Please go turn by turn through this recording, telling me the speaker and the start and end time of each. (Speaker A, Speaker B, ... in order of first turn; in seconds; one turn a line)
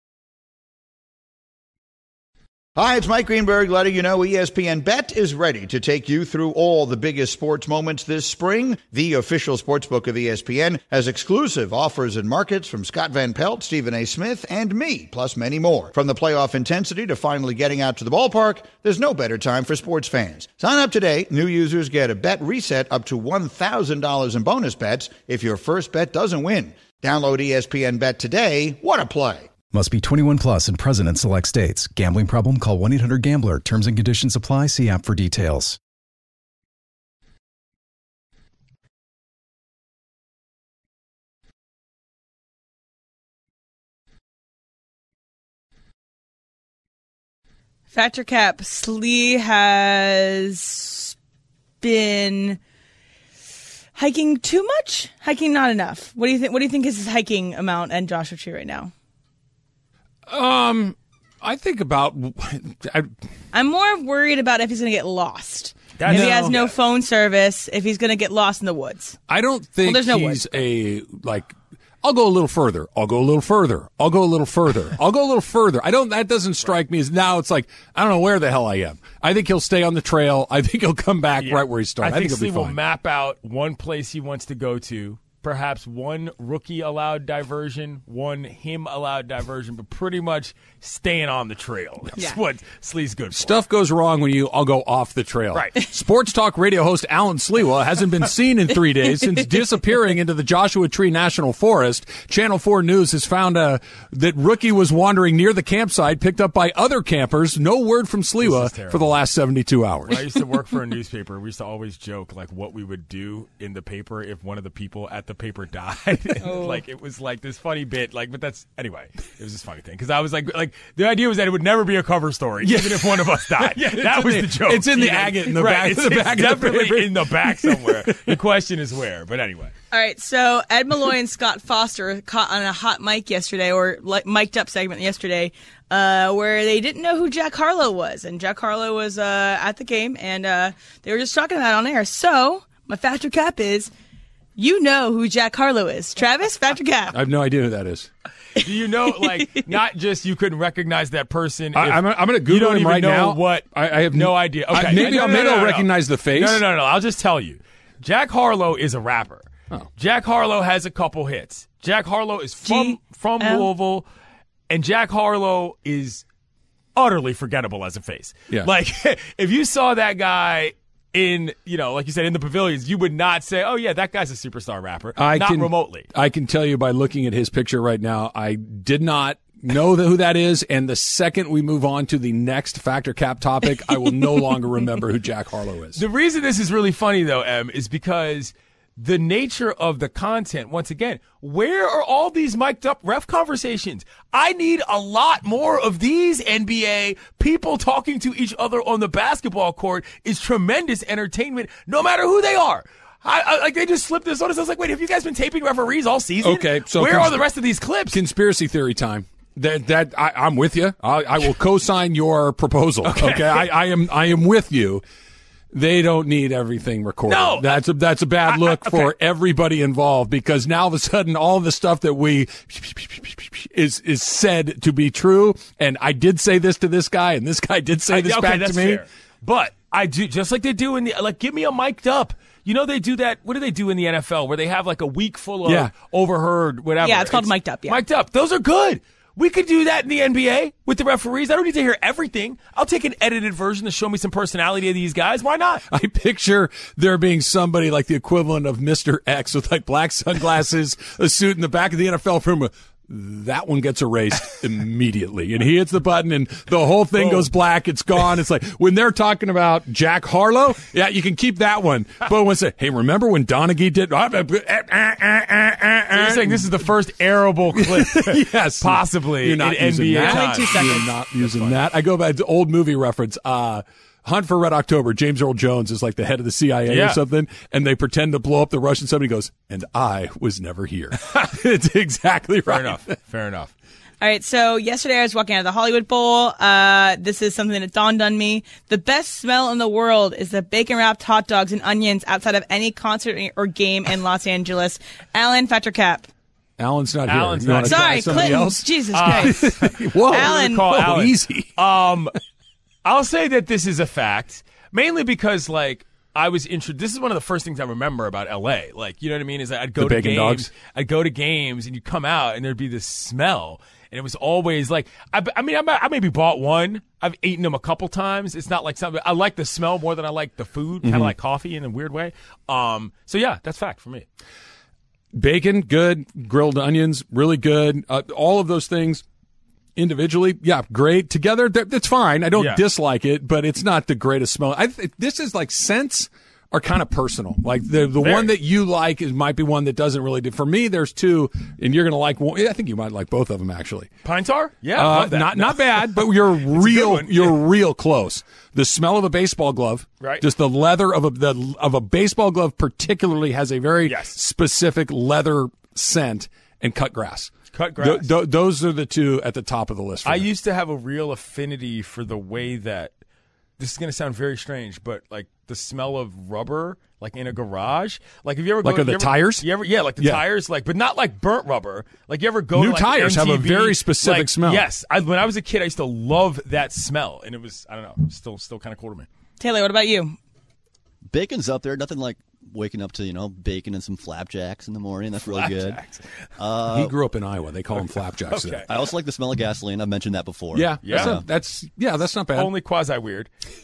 Speaker A: 2.8-29.5
Speaker B: 29.7-35.8
Speaker C: 47.9-51.1
Speaker C: 51.8-52.6
Speaker C: 54.0-58.9
Speaker D: 60.3-63.1
Speaker C: 63.5-69.2
Speaker E: 66.0-66.7
Speaker D: 66.0-66.6
Speaker D: 69.3-82.8
Speaker C: 69.8-70.5
Speaker E: 81.4-93.6
Speaker D: 93.3-110.3
Speaker E: 108.4-109.2
Speaker E: 110.1-129.7
Speaker C: 116.4-116.8
Speaker D: 122.6-128.4
Speaker C: 129.9-143.9
Speaker C: 144.6-147.2
Speaker D: 147.1-148.1
Speaker E: 148.6-164.1
Speaker C: 149.3-149.6
Speaker D: 151.8-156.6
Speaker C: 162.7-163.7
Speaker E: 164.7-166.2
Speaker E: 167.0-176.1
Speaker D: 175.2-186.0
Speaker E: 186.0-208.2
Speaker D: 206.4-207.5
Speaker D: 208.1-215.0
Speaker E: 213.0-213.7
Speaker D: 215.7-229.0
Speaker E: 217.3-217.8
Speaker E: 218.5-219.1
Speaker E: 228.1-245.8
Speaker D: 235.7-235.9
Speaker C: 237.0-238.0
Speaker D: 245.9-266.8
Speaker E: 257.2-257.5
Speaker E: 266.1-271.8
Speaker D: 267.8-283.1
Speaker C: 270.2-271.1
Speaker E: 276.9-277.2
Speaker E: 282.7-283.7
Speaker C: 284.2-296.3
Speaker D: 296.8-301.8
Speaker E: 297.3-302.4
Speaker C: 297.9-301.0
Speaker E: 303.1-324.3
Speaker D: 310.0-310.7
Speaker D: 321.0-321.3
Speaker D: 325.3-329.2
Speaker D: 330.0-344.1
Speaker E: 332.5-332.8
Speaker E: 338.2-338.6
Speaker E: 344.2-347.6
Speaker D: 344.9-360.5
Speaker E: 354.1-354.4
Speaker E: 357.7-358.3
Speaker E: 360.2-363.1
Speaker E: 363.8-379.3
Speaker D: 368.8-370.4
Speaker D: 372.7-374.9
Speaker C: 379.6-380.4
Speaker F: 381.3-386.0
Speaker E: 385.4-386.2
Speaker F: 386.6-387.2
Speaker D: 386.9-388.8
Speaker E: 388.5-389.0
Speaker F: 388.9-391.4
Speaker D: 390.7-392.7
Speaker E: 391.0-391.4
Speaker E: 392.5-393.5